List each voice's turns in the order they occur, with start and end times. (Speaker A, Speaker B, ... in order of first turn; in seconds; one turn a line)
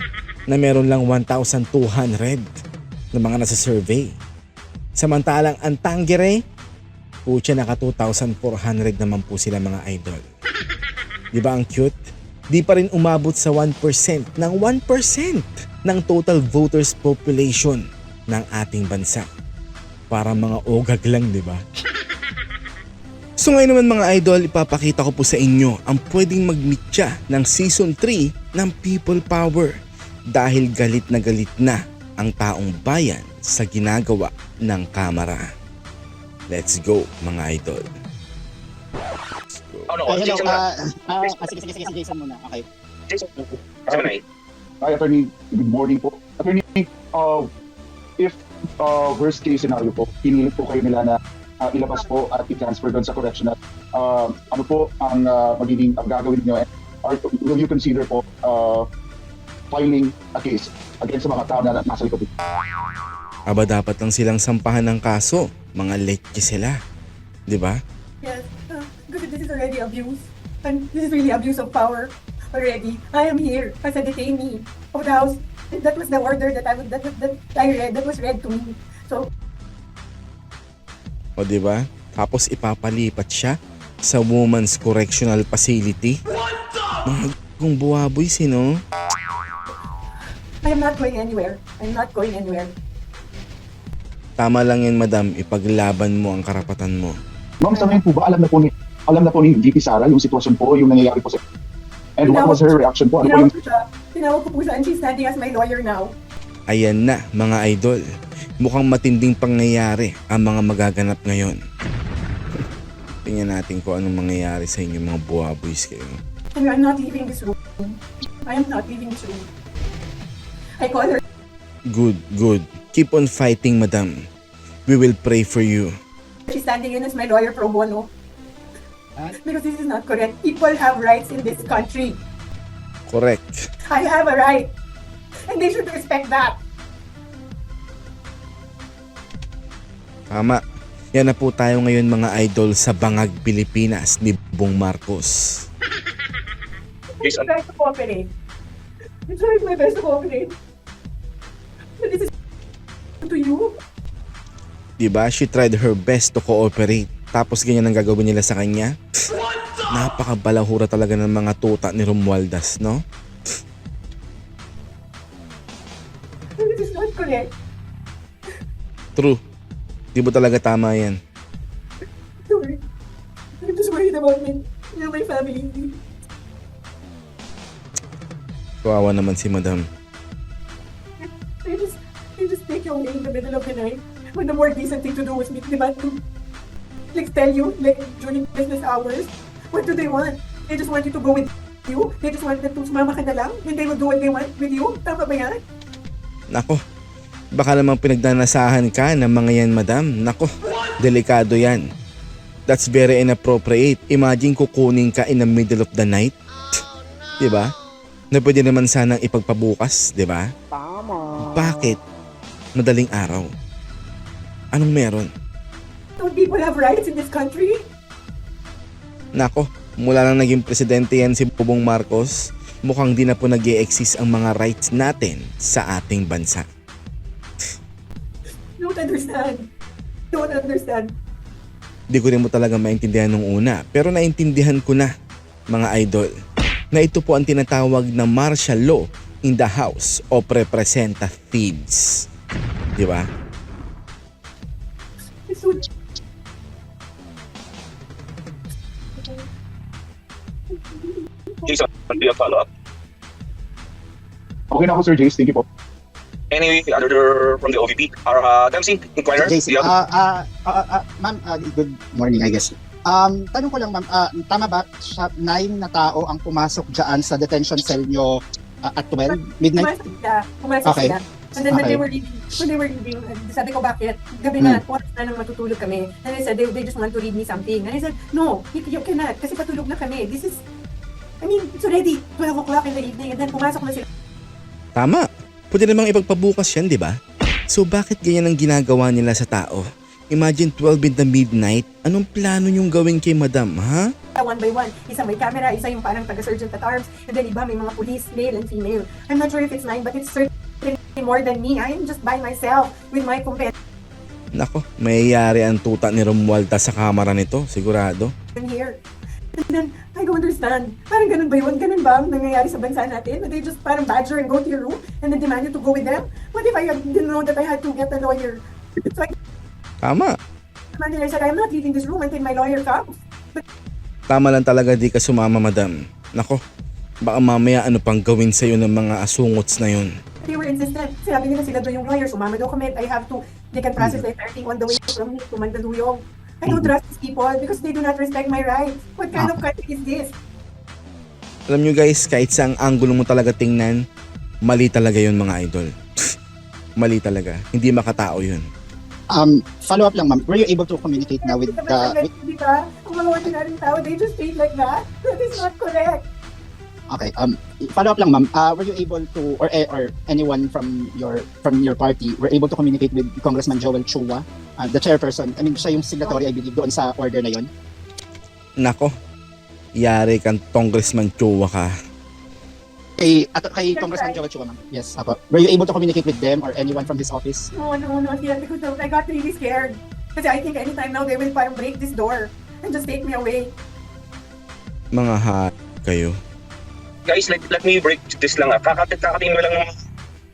Speaker A: 0.5-2.5
Speaker A: 3.1-4.2
Speaker A: 5.0-6.4
Speaker A: 7.2-10.2
Speaker A: 11.3-12.0
Speaker A: 12.5-19.3
Speaker A: 20.1-21.6
Speaker A: 23.4-29.7
Speaker A: 30.3-35.4
Speaker A: 36.5-37.8
Speaker B: 39.9-40.6
Speaker C: 40.1-42.6
Speaker B: 43.1-44.2
Speaker D: 44.8-47.5
Speaker D: 48.2-58.8
Speaker D: 59.7-62.3
Speaker A: 63.5-66.8
Speaker A: 67.5-67.8
Speaker E: 68.2-79.3
Speaker A: 81.4-86.2
Speaker A: 87.0-88.8
Speaker E: 90.6-92.7
Speaker A: 94.4-97.1
Speaker D: 97.6-101.4
Speaker D: 102.2-103.5
Speaker E: 102.2-106.1
Speaker A: 106.7-108.0
Speaker A: 108.6-111.6
Speaker A: 113.2-116.2
Speaker E: 116.5-119.5
Speaker E: 120.8-121.2
Speaker A: 121.9-124.2
Speaker A: 124.9-125.9
Speaker E: 126.5-128.1
Speaker E: 129.2-132.2
Speaker A: 133.1-133.5
Speaker E: 133.9-134.7
Speaker E: 135.5-136.6
Speaker A: 140.3-140.6
Speaker A: 141.1-145.4
Speaker E: 147.2-148.3
Speaker B: 147.2-147.5
Speaker E: 149.3-150.5
Speaker E: 152.0-152.3
Speaker E: 153.2-153.7
Speaker A: 155.0-158.9
Speaker A: 159.9-163.0
Speaker E: 166.6-167.5
Speaker A: 170.1-171.2
Speaker E: 172.5-172.8
Speaker E: 173.6-176.0
Speaker A: 178.8-179.9
Speaker E: 181.2-186.2
Speaker E: 187.1-195.6
Speaker A: 196.5-196.8
Speaker A: 197.5-201.8
Speaker A: 202.7-206.3
Speaker A: 207.4-207.7
Speaker A: 208.3-210.5
Speaker A: 211.4-212.0
Speaker A: 212.7-213.5
Speaker A: 214.7-215.3
Speaker E: 216.2-217.8
Speaker A: 219.3-226.7
Speaker E: 228.8-229.7
Speaker E: 230.3-231.1
Speaker A: 232.1-235.1
Speaker A: 235.7-236.3
Speaker A: 236.9-242.2
Speaker A: 243.0-243.3
Speaker E: 245.5-245.9
Speaker E: 249.2-249.4
Speaker E: 250.8-251.7
Speaker B: 251.7-252.7
Speaker D: 254.7-255.6
Speaker B: 256.5-259.9
Speaker C: 259.4-269.9
Speaker E: 269.2-280.6
Speaker C: 270.8-272.0
Speaker E: 281.4-284.1
Speaker A: 284.9-287.1
Speaker A: 287.7-294.1
Speaker E: 294.3-303.7
Speaker A: 304.6-308.3
Speaker E: 308.6-309.0
Speaker E: 309.6-319.3
Speaker A: 320.0-320.3
Speaker E: 320.9-323.6
Speaker A: 324.3-326.6
Speaker A: 327.2-330.1
Speaker E: 330.4-340.3
Speaker A: 341.7-344.0
Speaker A: 344.6-345.9
Speaker A: 347.0-348.6
Speaker C: 349.3-352.2
Speaker E: 351.4-356.2
Speaker C: 357.1-367.7
Speaker A: 368.8-369.1
Speaker A: 370.0-371.9
Speaker C: 373.2-377.7
Speaker E: 373.9-374.4
Speaker E: 377.7-383.7
Speaker A: 385.1-386.4
Speaker B: 387.2-389.9